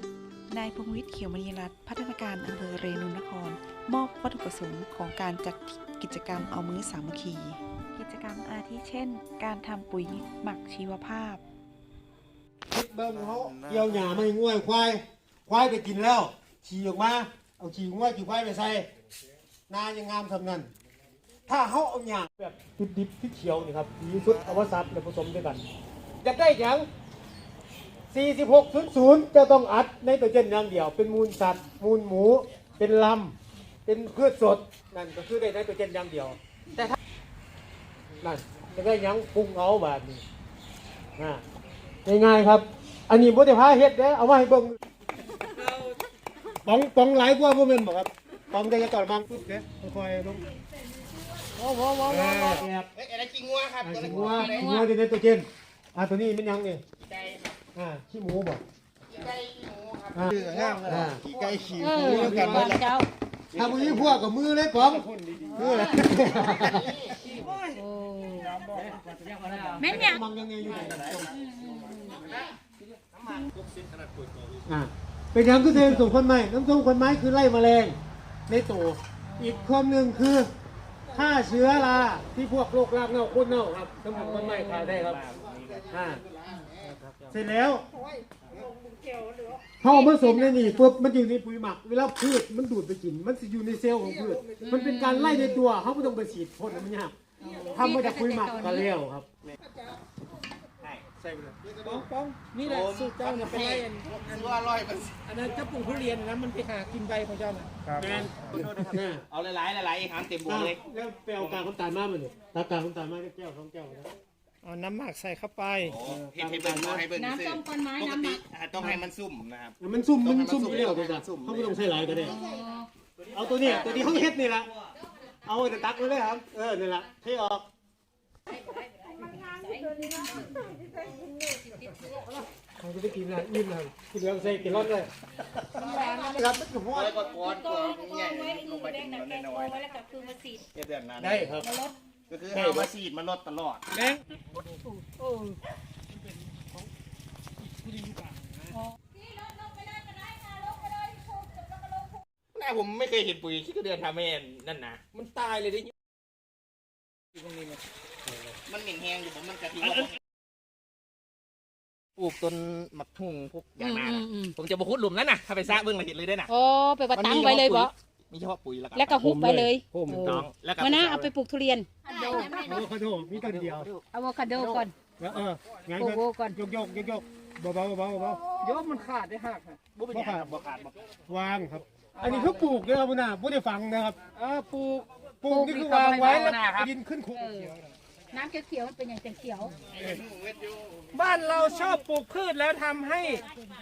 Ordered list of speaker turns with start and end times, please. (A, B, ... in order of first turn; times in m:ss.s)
0:00.5-0:11.4 A
0:12.7-0:18.9 B
0:19.7-0:20.7 B
0:21.5-0:25.6 B
0:26.2-0:26.9 B
0:28.1-0:33.3 B
0:33.8-0:36.8 B
0:38.2-0:40.2 B
0:41.2-0:41.4 B
0:42.0-0:44.8 B
0:46.6-0:50.4 B
0:51.6-0:52.3 C
0:52.0-0:52.9 B
0:52.9-0:54.6 D
0:53.8-0:56.8 B
0:54.3-0:54.9 C
0:57.0-0:57.5 D
0:57.7-0:58.6 B
0:59.1-1:02.9 D
1:00.1-1:01.2 B
1:00.5-1:00.8 E
1:01.8-1:03.1 C
1:01.9-1:02.8 B
1:03.5-1:04.2 D
1:03.5-1:07.0 B
1:05.6-1:07.7 D
1:07.7-1:08.6 C
1:08.7-1:09.8 D
1:09.8-1:10.2 C
1:09.8-1:11.4 B
1:10.6-1:11.3 D
1:11.3-1:12.2 C
1:12.0-1:14.6 D
1:14.6-1:20.5 B
1:19.3-1:19.7 C
1:21.1-1:25.2 B
1:24.1-1:25.0 C
1:24.4-1:26.0 D
1:25.9-1:26.2 B
1:27.3-1:27.8 B
1:29.8-1:37.1 B
1:29.8-1:31.0 C
1:34.6-1:35.6 C
1:37.4-1:38.9 C
1:37.7-1:39.3 B
1:40.8-1:41.0 D
1:41.2-1:41.6 B
1:41.8-1:44.6 E
1:42.6-1:45.1 D
1:45.3-1:48.2 E
1:48.0-1:49.2 B
1:48.0-1:50.8 D
1:50.4-1:54.1 B
1:51.4-1:51.7 D
1:54.6-1:55.9 E
1:55.8-2:02.3 D
1:56.0-1:57.1 B
1:57.1-1:58.4 C
1:58.8-1:59.0 B
1:59.8-2:02.4 B
2:02.2-2:02.9 C
2:03.3-2:04.7 B
2:03.6-2:04.3 D
2:05.4-2:07.6 B
2:08.5-2:10.6 C
2:12.8-2:15.1 B
2:15.8-2:16.5 C
2:15.9-2:16.3 E
2:16.3-2:17.2 B
2:16.9-2:19.8 D
2:17.2-2:20.6 C
2:20.7-2:21.6 D
2:21.2-2:21.7 B
2:21.6-2:21.9 C
2:22.3-2:23.9 D
2:22.5-2:22.9 B
2:23.9-2:24.2 E
2:25.2-2:25.5 E
2:27.8-2:28.3 E
2:32.5-2:35.0 D
2:35.1-2:35.9 E
2:37.4-2:37.7 E
2:38.6-2:40.2 D
2:42.2-2:46.5 D
2:43.8-2:44.5 C
2:46.5-2:47.9 C
2:47.1-2:49.4 D
2:48.9-2:52.6 C
2:49.2-2:50.4 B
2:50.1-2:51.3 D
2:52.1-2:52.8 D
2:52.5-2:53.9 B
2:53.4-2:54.0 D
2:54.1-2:54.9 C
2:54.7-2:58.4 B
2:56.0-2:56.6 C
2:58.6-2:59.8 E
2:59.9-3:01.0 D
3:00.1-3:00.5 B
3:01.3-3:04.2 B
3:02.2-3:02.6 E
3:04.4-3:05.1 E
3:05.4-3:07.5 B
3:05.5-3:06.8 C
3:06.3-3:06.8 E
3:07.3-3:07.8 C
3:08.3-3:09.8 C
3:09.9-3:11.0 D
3:11.1-3:13.4 E